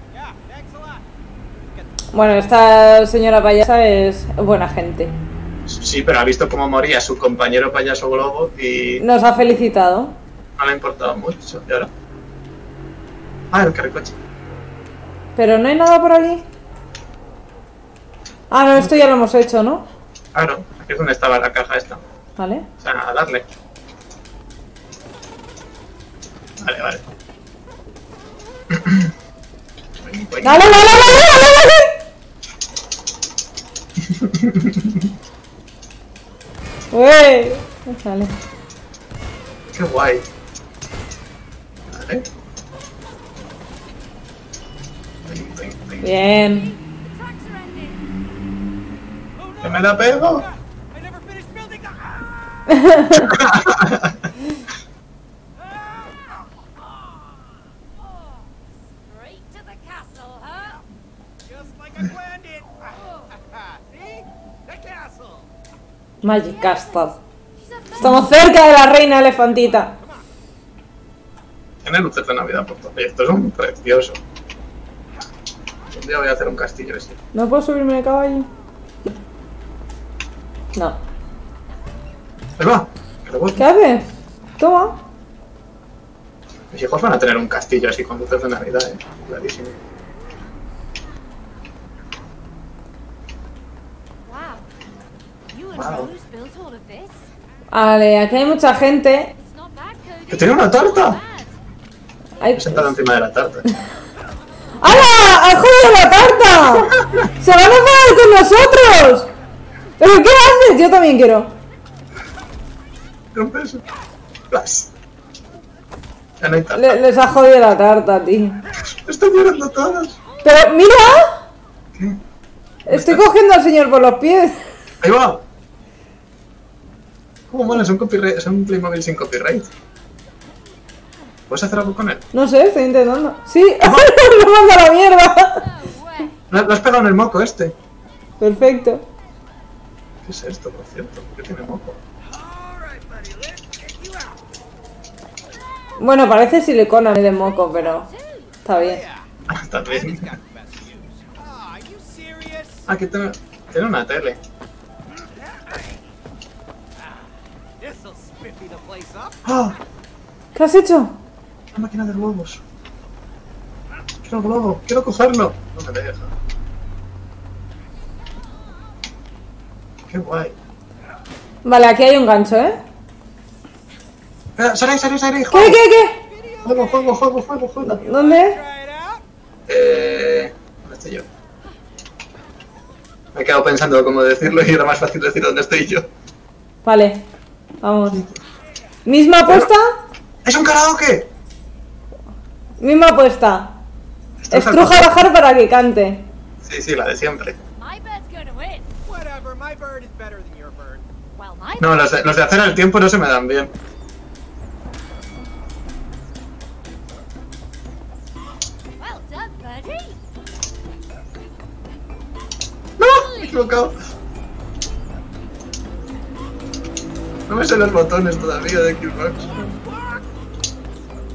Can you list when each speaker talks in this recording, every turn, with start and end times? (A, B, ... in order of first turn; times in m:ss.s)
0:00.1-0:02.2 A
0:02.1-0:05.2 B
0:05.7-0:09.0 C
0:09.0-0:10.2 B
0:10.6-0:11.9 C
0:13.5-0:14.2 C
0:15.4-0:16.4 B
0:18.5-0:19.9 B
0:20.3-0:22.0 C
0:22.4-0:22.7 B
0:22.8-0:23.5 C
0:26.6-0:27.0 C
0:28.7-0:29.1 C
0:30.0-0:31.4 C
0:30.4-0:31.9 B
0:34.1-0:35.1 C
0:36.9-0:38.3 B
0:39.7-0:40.2 C
0:41.9-0:42.2 C
0:45.3-0:46.1 C
0:46.0-0:46.7 B
0:46.4-0:48.1 D
0:49.4-0:52.8 A
0:49.6-0:50.5 C
0:52.7-0:53.3 B
0:53.2-0:54.3 C
0:55.6-0:56.5 A
0:58.9-1:00.8 D
1:01.4-1:05.5 A
1:03.0-1:03.3 D
1:06.2-1:07.1 B
1:06.4-1:08.4 D
1:08.0-1:09.9 B
1:09.9-1:10.2 A
1:11.8-1:14.2 C
1:15.9-1:17.2 C
1:17.3-1:18.5 B
1:22.6-1:23.7 C
1:23.6-1:24.1 B
1:24.6-1:25.0 B
1:26.7-1:29.8 C
1:34.2-1:34.7 D
1:35.5-1:37.3 D
1:35.8-1:36.1 C
1:37.7-1:39.3 B
1:38.3-1:41.6 D
1:40.3-1:41.2 C
1:42.4-1:42.9 B
1:42.6-1:43.7 C
1:44.8-1:49.3 B
1:46.8-1:47.3 C
1:50.0-1:51.5 B
1:53.3-1:53.8 C
1:54.5-1:54.9 C
1:56.4-1:57.0 C
1:56.7-1:58.6 B
1:58.9-2:00.2 C
2:00.4-2:01.4 B
2:02.9-2:03.3 C
2:02.9-2:04.7 B
2:05.0-2:05.4 C
2:07.5-2:09.7 C
2:11.5-2:12.2 C
2:12.3-2:15.6 B
2:13.8-2:14.1 C
2:15.5-2:16.4 D
2:16.5-2:17.8 C
2:18.4-2:19.0 B
2:20.2-2:22.0 C
2:22.3-2:24.4 A
2:26.0-2:28.1 B
2:27.8-2:28.6 D
2:28.6-2:29.0 B
2:28.8-2:29.3 A
2:29.5-2:30.2 C
2:29.8-2:32.9 A
2:32.9-2:34.4 C
2:35.3-2:36.1 A
2:37.0-2:39.4 A
2:39.4-2:39.8 C
2:40.6-2:41.1 B
2:41.7-2:42.6 C
2:44.2-2:46.3 C
2:50.1-2:50.6 C
2:51.6-2:52.8 B
2:54.6-2:55.8 C
2:55.5-2:56.2 B
2:56.3-2:57.0 A
2:56.6-2:58.0 C
2:57.8-2:58.6 B
2:58.0-2:59.2 A
2:59.7-3:01.3 C
3:03.4-3:06.1 C
3:06.8-3:07.2 B
3:07.8-3:08.2 B
3:08.1-3:08.4 C
3:09.1-3:09.9 B
3:10.4-3:11.3 C
3:12.8-3:13.7 B
3:14.4-3:15.1 C
3:14.5-3:16.2 B
3:16.6-3:17.6 C
3:17.8-3:18.9 D
3:19.1-3:21.0 A
3:21.4-3:22.2 D
3:21.8-3:23.7 C
3:29.0-3:30.2 D
3:33.0-3:34.0 C
3:33.1-3:33.9 D
3:37.5-3:39.5 C
3:39.4-3:40.4 A